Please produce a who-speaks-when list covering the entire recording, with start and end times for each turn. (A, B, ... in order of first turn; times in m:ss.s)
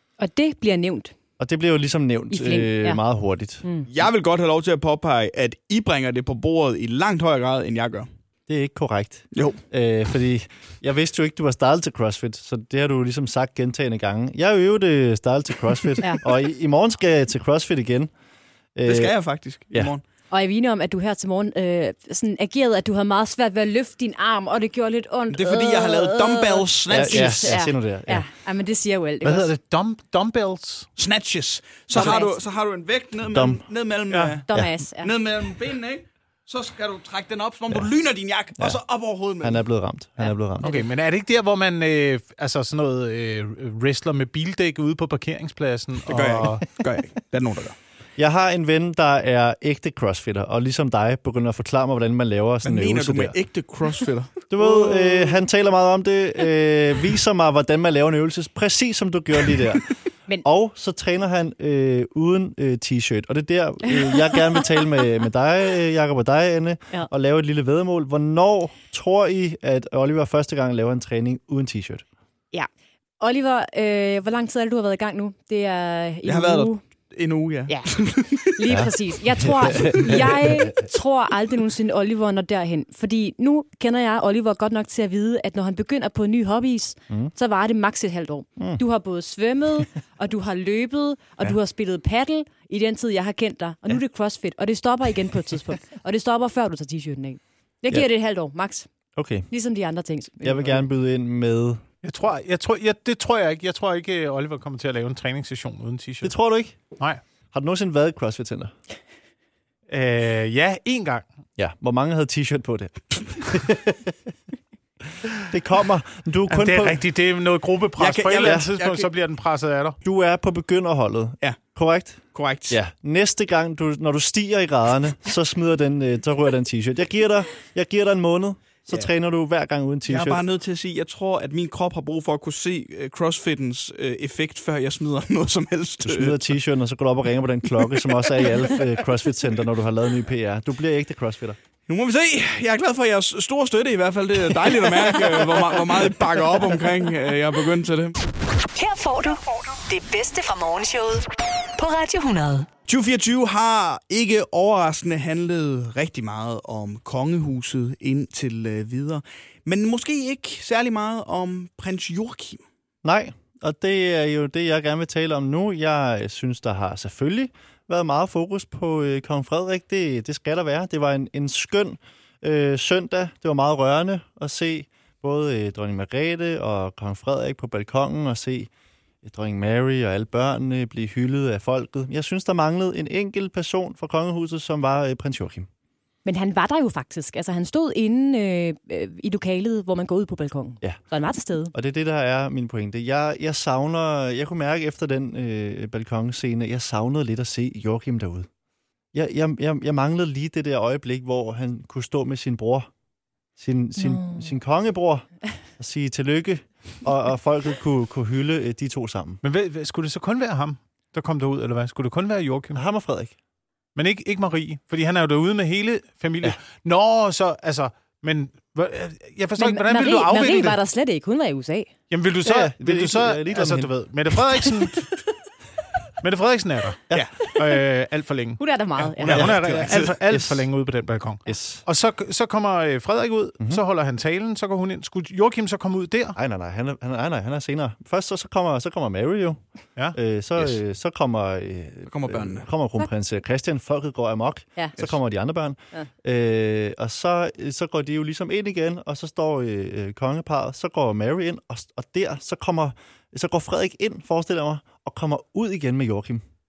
0:00.2-0:01.1 A
0:01.4-0:03.6 B
0:02.3-0:03.0 A
0:03.6-0:03.9 A
0:03.9-0:08.1 C
0:08.5-0:18.1 B
0:09.3-0:09.6 C
0:18.8-0:19.2 B
0:18.8-0:20.0 C
0:20.3-0:29.5 A
0:25.3-0:27.6 C
0:26.9-0:28.3 B
0:29.2-0:30.9 D
0:31.0-0:39.6 C
0:31.9-0:32.4 A
0:33.3-0:33.6 B
0:34.1-0:34.4 D
0:34.5-0:35.1 A
0:39.4-0:40.8 B
0:40.6-0:46.7 D
0:46.1-0:47.8 C
0:48.2-0:53.4 B
0:52.6-0:55.4 C
0:54.5-0:59.9 B
1:00.4-1:12.0 B
1:04.0-1:04.3 A
1:13.2-1:16.8 A
1:16.3-1:18.8 C
1:17.7-1:38.9 A
1:18.7-1:20.7 B
1:39.2-1:39.5 B
1:39.5-1:40.8 A
1:40.4-1:41.8 B
1:42.0-1:46.3 D
1:46.2-1:46.8 B
1:47.5-1:48.7 B
1:49.9-1:51.3 D
1:51.6-1:54.2 B
1:55.5-1:57.0 B
1:56.5-2:00.0 D
1:58.0-1:59.1 C
1:58.4-1:58.7 B
2:00.0-2:10.4 B
2:02.3-2:02.8 C
2:10.0-2:16.4 C
2:16.0-2:21.6 B
2:21.9-2:28.2 C
2:28.8-2:32.7 E
2:32.9-2:42.6 C
2:43.0-2:58.7 B
2:59.2-3:05.7 B
3:06.2-3:11.7 A
3:11.7-3:18.5 B
3:19.1-3:22.9 B
3:23.6-3:25.3 B
3:24.0-3:24.5 A
3:25.8-3:29.4 B
3:29.4-3:32.8 D
3:32.7-3:33.4 B
3:34.0-3:40.8 D
3:39.6-3:41.9 A
3:42.1-3:45.1 D
3:42.4-3:44.7 B
3:46.2-3:56.4 D
3:48.6-3:49.8 A
3:49.2-3:50.2 C
3:50.1-3:50.7 B
3:51.5-3:51.8 B
3:56.4-3:59.6 B
4:00.1-4:16.4 B
4:02.1-4:02.7 C